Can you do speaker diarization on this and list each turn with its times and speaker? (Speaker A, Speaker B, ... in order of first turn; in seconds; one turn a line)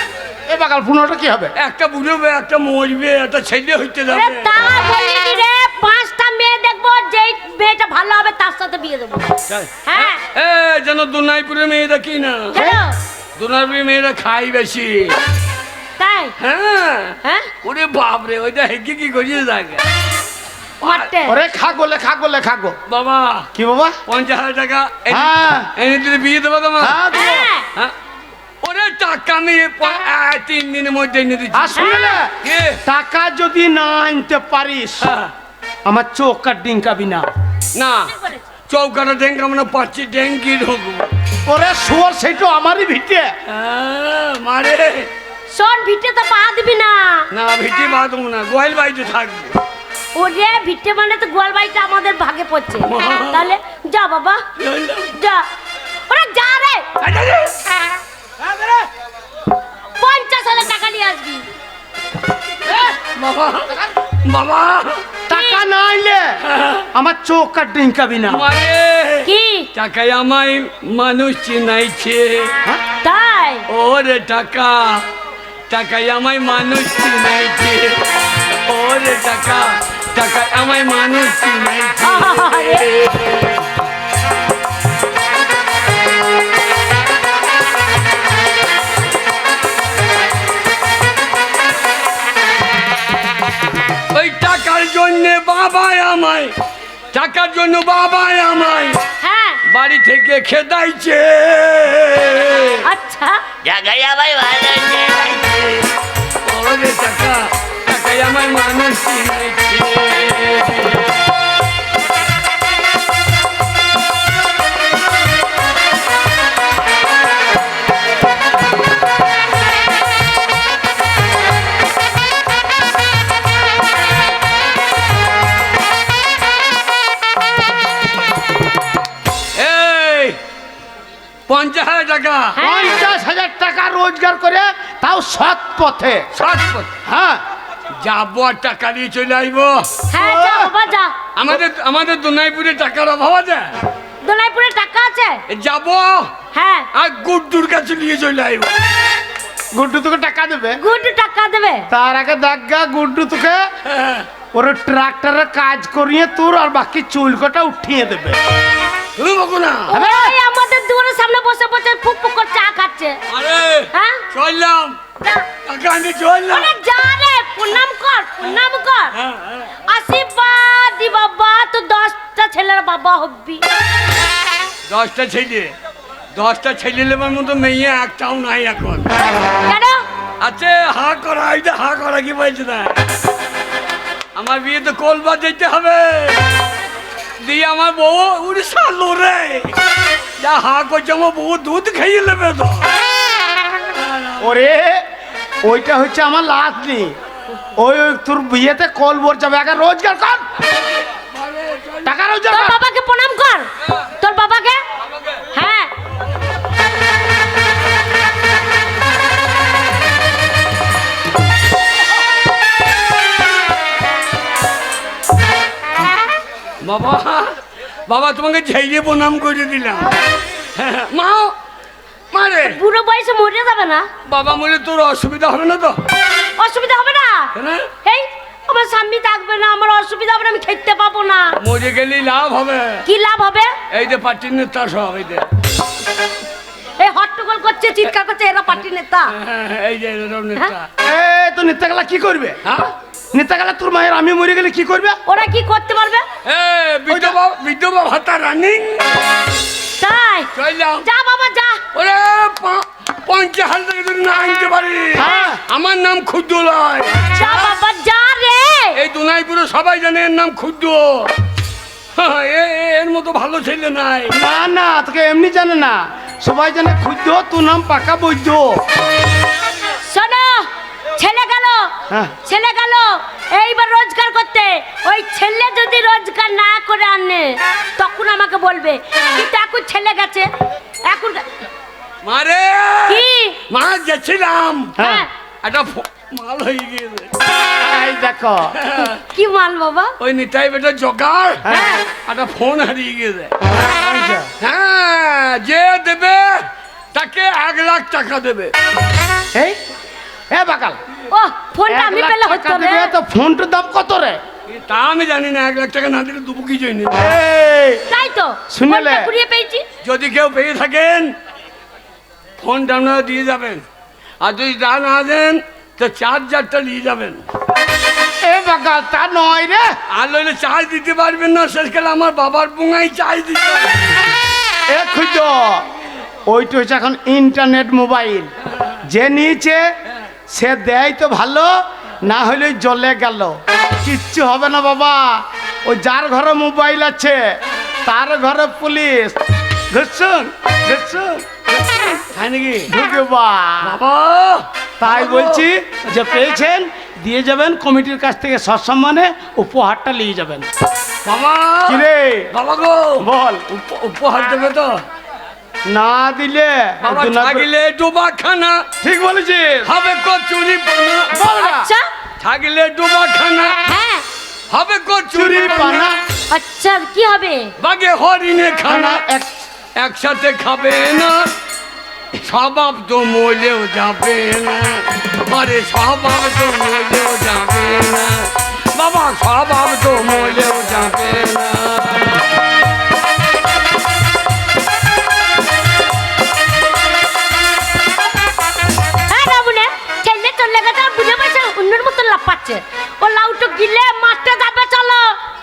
Speaker A: 0.5-1.5
Speaker B: 1.6-4.6
Speaker C: 4.1-10.2
Speaker B: 9.5-12.6
Speaker C: 12.5-13.0
Speaker B: 13.4-15.2
Speaker C: 16.0-16.4
Speaker B: 16.4-19.8
Speaker C: 17.2-17.5
Speaker B: 20.8-21.1
Speaker C: 20.8-21.4
Speaker A: 21.3-22.8
Speaker B: 22.9-23.5
Speaker A: 23.5-24.0
Speaker B: 24.1-27.0
Speaker A: 25.1-25.7
Speaker A: 26.8-27.5
Speaker C: 27.1-27.7
Speaker B: 28.6-32.8
Speaker A: 31.5-35.1
Speaker C: 31.8-32.2
Speaker B: 35.0-35.3
Speaker A: 35.9-37.3
Speaker B: 37.8-38.1
Speaker C: 38.1-38.4
Speaker B: 38.7-41.1
Speaker A: 41.5-43.3
Speaker B: 43.5-45.1
Speaker C: 45.5-47.3
Speaker B: 47.3-49.6
Speaker C: 50.1-54.4
Speaker B: 52.9-53.5
Speaker B: 54.6-55.1
Speaker C: 55.1-55.5
Speaker C: 56.1-56.9
Speaker B: 57.0-57.6
Speaker A: 58.4-58.9
Speaker C: 60.0-61.5
Speaker B: 62.6-65.0
Speaker A: 65.3-66.4
Speaker C: 65.3-65.6
Speaker B: 66.4-66.9
Speaker A: 66.9-68.5
Speaker B: 68.3-72.5
Speaker C: 69.2-69.7
Speaker C: 73.0-73.7
Speaker B: 73.7-75.1
Speaker B: 75.7-78.0
Speaker B: 78.7-83.6
Speaker C: 82.0-83.3
Speaker B: 94.1-96.5
Speaker B: 97.1-99.0
Speaker C: 99.2-99.6
Speaker B: 99.7-102.8
Speaker C: 102.8-103.5
Speaker B: 103.6-105.9
Speaker B: 106.5-111.1
Speaker B: 129.6-130.4
Speaker B: 131.5-132.6
Speaker C: 132.6-133.0
Speaker A: 132.6-136.3
Speaker B: 136.3-136.9
Speaker A: 137.1-137.4
Speaker B: 138.0-140.0
Speaker C: 140.1-141.1
Speaker A: 140.2-140.7
Speaker B: 141.4-143.7
Speaker C: 144.2-145.4
Speaker B: 145.5-146.3
Speaker C: 146.5-146.9
Speaker B: 146.9-148.7
Speaker A: 149.7-150.8
Speaker C: 150.8-151.9
Speaker A: 151.9-153.7
Speaker B: 153.9-154.3
Speaker A: 154.5-158.4
Speaker B: 159.2-159.9
Speaker C: 159.9-163.2
Speaker A: 159.9-160.3
Speaker B: 163.3-165.0
Speaker C: 163.9-164.3
Speaker C: 165.2-165.5
Speaker B: 165.7-166.7
Speaker C: 166.5-169.2
Speaker B: 169.2-169.7
Speaker C: 169.9-173.6
Speaker B: 174.9-175.7
Speaker B: 176.3-179.1
Speaker C: 179.4-180.0
Speaker B: 180.4-183.1
Speaker B: 184.4-186.5
Speaker B: 187.4-189.8
Speaker B: 190.4-192.9
Speaker B: 193.9-194.5
Speaker A: 194.4-195.1
Speaker A: 195.6-197.2
Speaker A: 197.8-200.4
Speaker B: 201.1-202.1
Speaker A: 202.1-202.8
Speaker C: 202.5-204.8
Speaker B: 205.2-205.4
Speaker C: 205.5-205.9
Speaker B: 216.8-217.6
Speaker B: 218.1-220.1
Speaker B: 220.8-221.6
Speaker B: 222.3-222.8
Speaker C: 222.6-224.1
Speaker B: 224.3-226.0
Speaker C: 226.6-227.5
Speaker B: 227.6-227.9
Speaker C: 228.0-231.6
Speaker B: 231.6-233.1
Speaker C: 233.1-233.8
Speaker B: 233.9-235.5
Speaker C: 237.0-239.3
Speaker B: 239.3-240.9
Speaker A: 241.0-242.6
Speaker B: 242.7-242.9
Speaker A: 243.3-245.2
Speaker C: 245.3-246.3
Speaker B: 246.4-249.2
Speaker A: 247.1-247.3
Speaker C: 250.0-250.5
Speaker B: 250.6-251.1
Speaker C: 251.1-251.8
Speaker B: 251.9-257.4
Speaker A: 255.2-255.6
Speaker C: 255.2-255.5
Speaker C: 257.3-259.0
Speaker B: 258.9-261.3
Speaker B: 262.2-264.4
Speaker A: 264.3-268.8
Speaker C: 270.0-280.5
Speaker C: 281.1-281.5
Speaker B: 282.2-285.0
Speaker C: 283.1-283.6
Speaker A: 285.0-285.3
Speaker C: 285.0-285.3
Speaker B: 285.6-287.3
Speaker A: 287.8-288.8
Speaker B: 288.7-289.2
Speaker C: 289.1-290.1
Speaker B: 290.2-293.5
Speaker A: 291.6-291.9
Speaker C: 291.7-292.1
Speaker A: 293.8-294.5
Speaker B: 294.6-298.7
Speaker A: 300.5-301.0
Speaker C: 301.3-303.1
Speaker A: 301.9-304.4
Speaker B: 304.7-307.3
Speaker A: 307.2-308.1
Speaker C: 308.1-309.9
Speaker A: 308.7-309.3
Speaker B: 310.0-311.3
Speaker B: 312.6-313.8
Speaker B: 314.4-317.4
Speaker A: 318.4-319.9
Speaker B: 320.1-324.1
Speaker A: 324.9-325.9
Speaker A: 326.5-328.5
Speaker A: 329.0-329.9
Speaker A: 330.5-342.2
Speaker B: 342.3-342.9
Speaker A: 342.9-344.0
Speaker B: 343.8-345.6
Speaker A: 345.0-350.7
Speaker B: 351.3-355.0
Speaker A: 351.9-352.5
Speaker A: 353.2-353.6
Speaker A: 355.9-357.7
Speaker B: 357.0-358.9
Speaker A: 359.0-359.9
Speaker B: 359.9-361.3
Speaker A: 361.3-361.9
Speaker C: 361.4-362.1
Speaker B: 362.4-363.8
Speaker C: 363.9-364.3
Speaker B: 364.7-366.1
Speaker A: 365.3-366.2
Speaker C: 366.5-367.7
Speaker B: 367.8-369.2
Speaker A: 368.9-369.6
Speaker B: 370.0-371.5
Speaker B: 372.3-382.5
Speaker C: 389.3-395.4